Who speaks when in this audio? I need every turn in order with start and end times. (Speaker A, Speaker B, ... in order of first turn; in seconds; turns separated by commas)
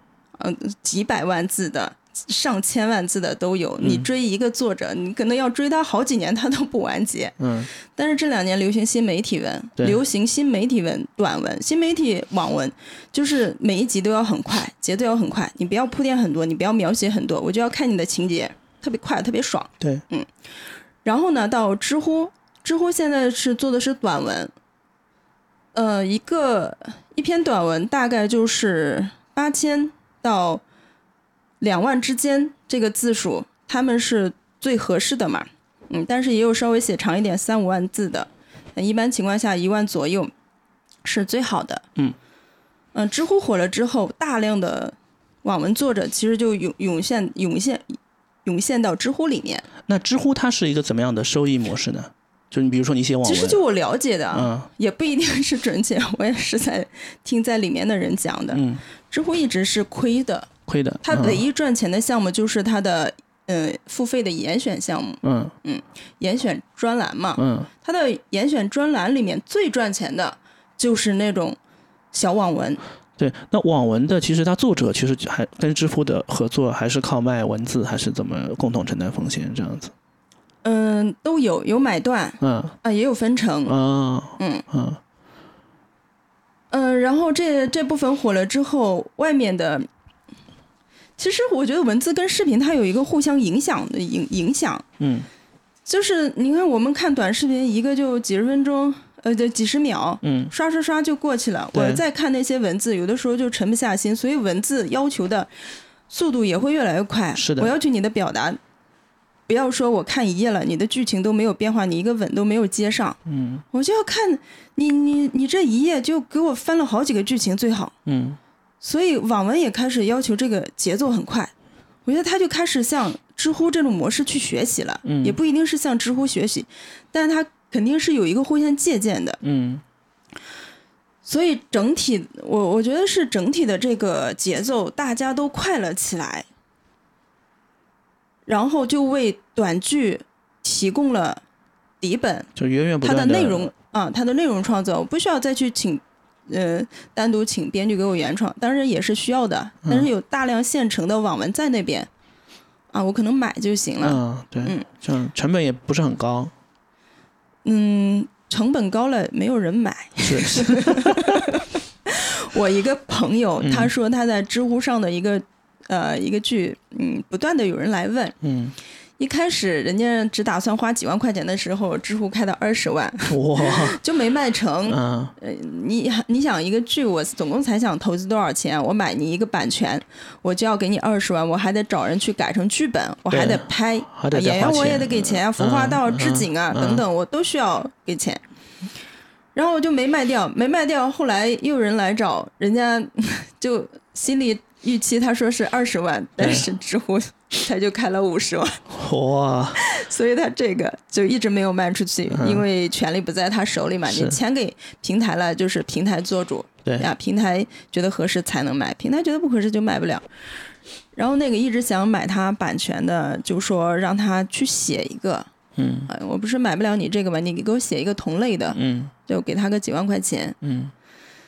Speaker A: 0.4-20.3, Speaker B: 3.8-4.1, Speaker B: 7.4-7.7, Speaker A: 21.0-24.5, Speaker A: 25.7-30.6, Speaker A: 31.6-40.3, Speaker A: 41.0-41.9, Speaker A: 42.9-49.6, Speaker B: 49.9-53.6, Speaker A: 53.2-60.5, Speaker B: 54.3-54.7, Speaker B: 58.5-58.8, Speaker B: 60.7-61.4, Speaker A: 61.0-71.6, Speaker B: 65.2-65.5, Speaker B: 67.4-67.7, Speaker A: 72.1-72.8, Speaker B: 73.2-79.9, Speaker A: 80.6-83.7, Speaker B: 82.4-82.7, Speaker B: 83.7-85.0, Speaker A: 84.4-84.6, Speaker A: 86.7-89.9, Speaker A: 91.2-94.8, Speaker B: 95.0-95.3, Speaker A: 95.8-105.5, Speaker B: 100.2-100.5, Speaker B: 101.7-102.0, Speaker A: 106.1-108.6, Speaker B: 107.3-107.7, Speaker A: 109.5-113.2, Speaker B: 113.2-113.6, Speaker A: 113.7-117.9, Speaker B: 118.0-118.4, Speaker A: 118.8-121.5, Speaker A: 122.0-129.4, Speaker B: 125.0-125.4, Speaker B: 129.4-129.8, Speaker A: 131.2-136.5, Speaker A: 138.4-141.4, Speaker A: 142.0-142.5, Speaker B: 142.6-143.7, Speaker A: 143.0-152.1, Speaker A: 152.9-154.9, Speaker B: 154.0-156.5, Speaker A: 157.6-168.3, Speaker B: 160.2-161.4, Speaker B: 163.6-163.9, Speaker B: 168.4-168.8, Speaker A: 169.2-188.4, Speaker B: 173.3-174.0, Speaker B: 174.9-175.3, Speaker B: 183.3-187.0, Speaker A: 189.5-198.8, Speaker B: 196.4-196.7, Speaker B: 198.9-199.8, Speaker A: 199.8-210.2, Speaker B: 202.3-202.6, Speaker B: 204.1-204.4, Speaker A: 211.1-215.5, Speaker B: 215.8-216.1, Speaker A: 216.1-220.6, Speaker B: 218.7-219.1, Speaker B: 220.6-220.9